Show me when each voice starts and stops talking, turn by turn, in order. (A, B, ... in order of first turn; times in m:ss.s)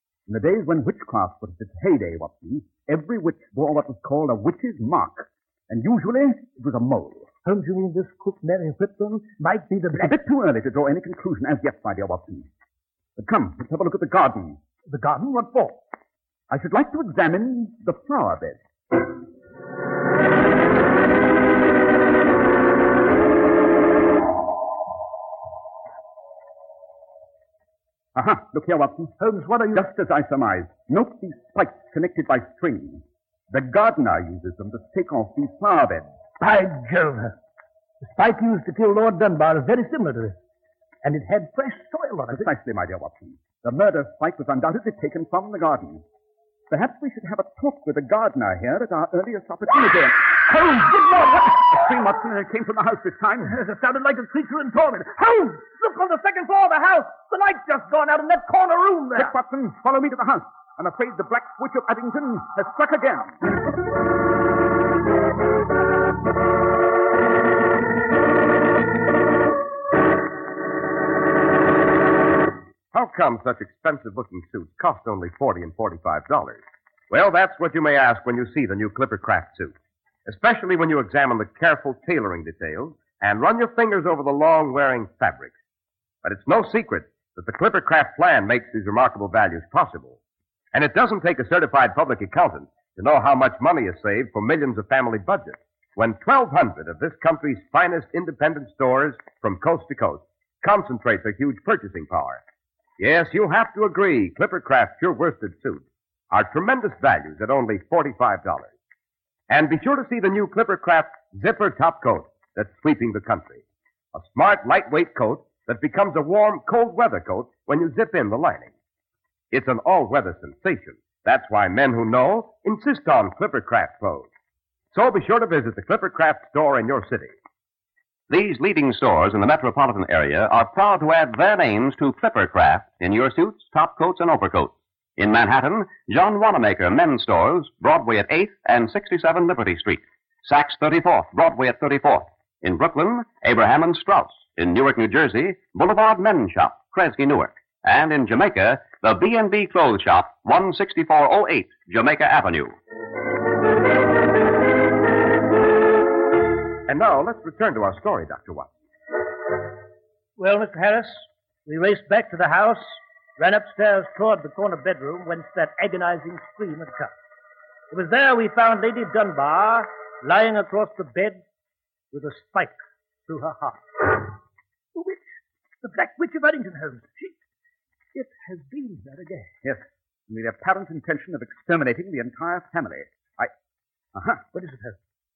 0:00.3-0:07.3 A
0:07.4-0:10.2 B
0:10.0-0:12.5 A
0:13.2-0:14.6 A
0:14.9-0:15.8 B
0:16.5-0:18.6 A
0:28.2-0:29.2 A
0:29.2-0:29.9 B
0:29.7-0:36.1 A
0:36.4-0:37.4 B
0:38.0-0:40.4 B
0:41.0-0:42.5 B
0:42.3-0:46.0 A
0:46.7-0:53.6 A
0:50.5-0:51.6 B
0:53.4-0:59.3 B
0:59.2-1:03.4 A
1:12.9-1:19.7 C
1:20.3-1:25.5 C
1:26.2-1:30.2 C
1:30.7-1:42.4 C
1:43.0-1:48.7 C
1:49.5-1:53.6 C
1:54.1-1:58.7 C
1:59.5-2:04.3 C
2:04.9-2:07.3 C
2:08.3-2:32.8 D
2:36.9-2:38.7 C
2:40.4-2:47.1 B
2:47.9-2:51.4 B
2:52.1-2:54.0 B
2:54.9-2:57.4 B
2:58.1-2:59.5 B
2:59.6-3:03.5 A
3:04.2-3:04.4 A
3:04.5-3:05.0 B